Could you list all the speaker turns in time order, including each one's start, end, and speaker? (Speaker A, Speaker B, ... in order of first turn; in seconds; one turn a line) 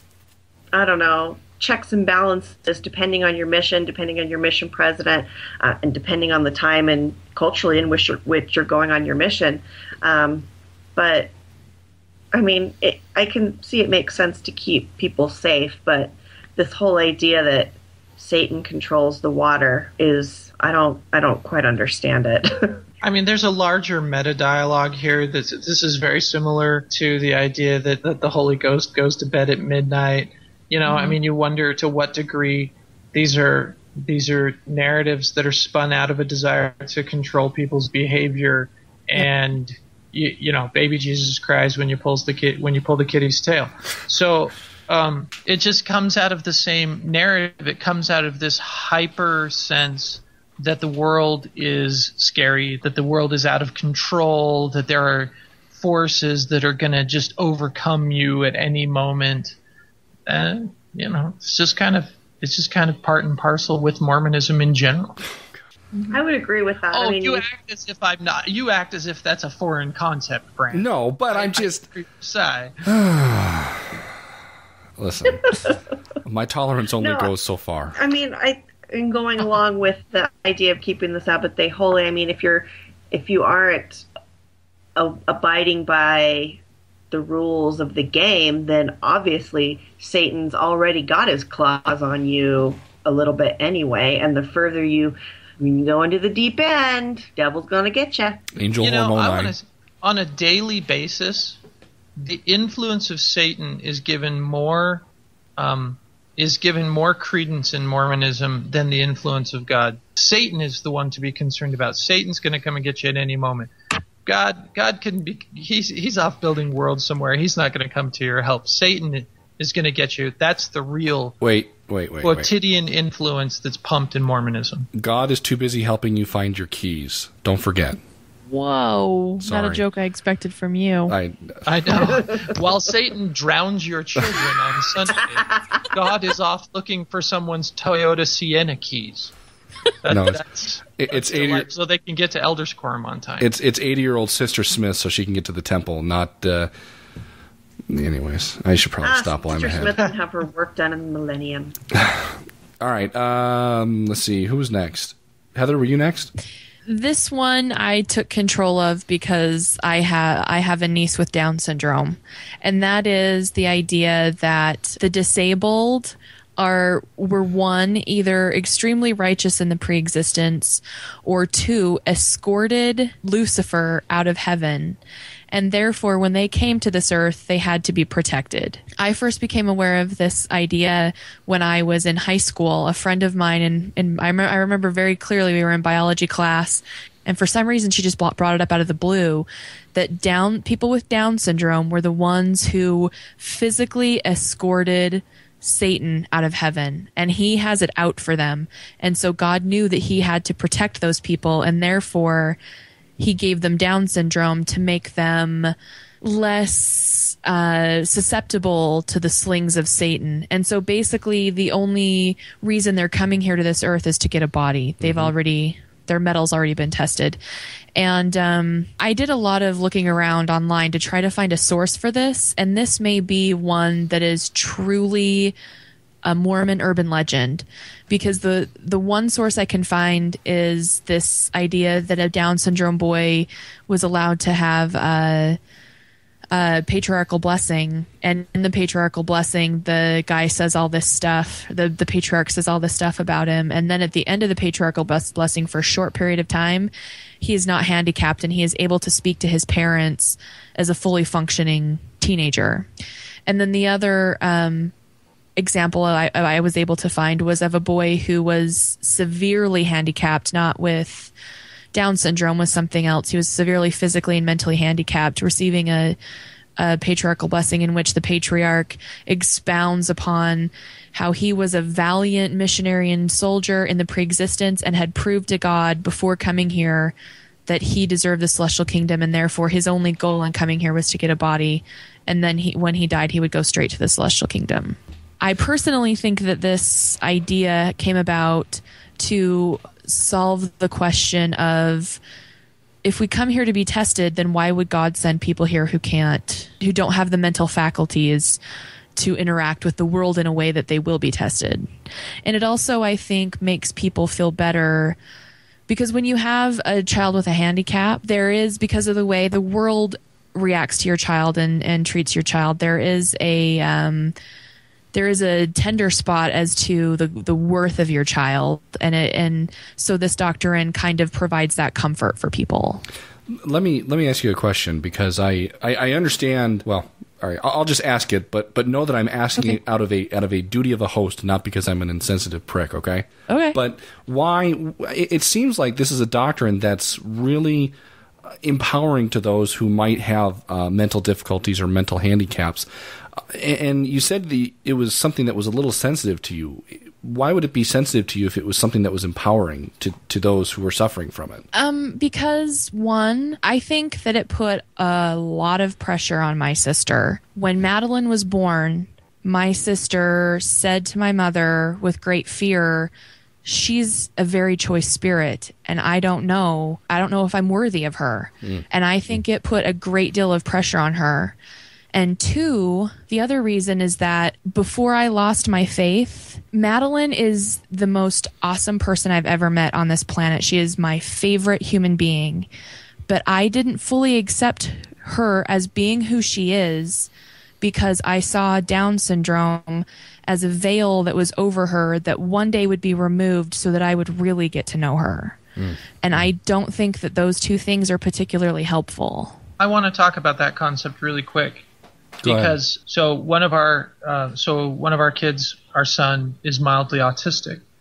Speaker A: 0.7-11.3
Speaker A: 12.3-22.8
Speaker B: 23.0-59.5
Speaker C: 30.9-31.1
Speaker B: 60.3-65.2
Speaker D: 65.3-65.6
Speaker A: 66.1-67.4
Speaker B: 66.9-72.7
Speaker D: 70.7-71.8
Speaker D: 72.8-74.0
Speaker D: 75.0-78.0
Speaker A: 75.5-75.8
Speaker A: 77.0-77.3
Speaker A: 78.0-84.0
Speaker A: 85.0-98.4
Speaker D: 98.5-99.5
Speaker B: 98.8-101.6
Speaker B: 102.2-105.0
Speaker B: 105.6-113.7
Speaker B: 114.2-121.3
Speaker D: 121.4-122.5
Speaker B: 122.2-124.9
Speaker D: 124.9-128.0
Speaker C: 128.5-131.2
Speaker D: 129.4-129.8
Speaker D: 131.1-132.2
Speaker B: 131.6-139.3
Speaker B: 140.0-143.5
Speaker D: 140.1-140.4
Speaker D: 140.9-141.7
Speaker D: 143.4-146.7
Speaker D: 147.9-149.9
Speaker A: 149.0-151.8
Speaker D: 151.9-156.3
Speaker C: 156.9-175.0
Speaker C: 175.5-202.6
Speaker C: 203.2-217.4
Speaker D: 215.0-215.3
Speaker C: 217.9-225.5
Speaker C: 226.2-235.6
Speaker C: 236.5-246.9
Speaker C: 247.4-252.9
Speaker C: 253.5-254.9
Speaker C: 255.6-261.3
Speaker C: 261.9-266.1
Speaker C: 266.8-277.1
Speaker C: 277.6-292.2
Speaker C: 293.0-298.6
Speaker C: 299.1-301.9
Speaker C: 302.4-305.2
Speaker C: 305.9-314.3
Speaker C: 315.1-323.0
Speaker D: 323.5-337.9
Speaker C: 333.5-333.8
Speaker D: 338.6-342.9
Speaker D: 343.4-351.6
Speaker C: 351.7-363.1
Speaker C: 363.6-371.5
Speaker C: 372.1-382.7
Speaker C: 383.3-387.3
Speaker C: 387.8-395.6
Speaker C: 396.2-399.6
Speaker B: 399.8-401.8
Speaker B: 402.4-407.8
Speaker D: 402.4-402.8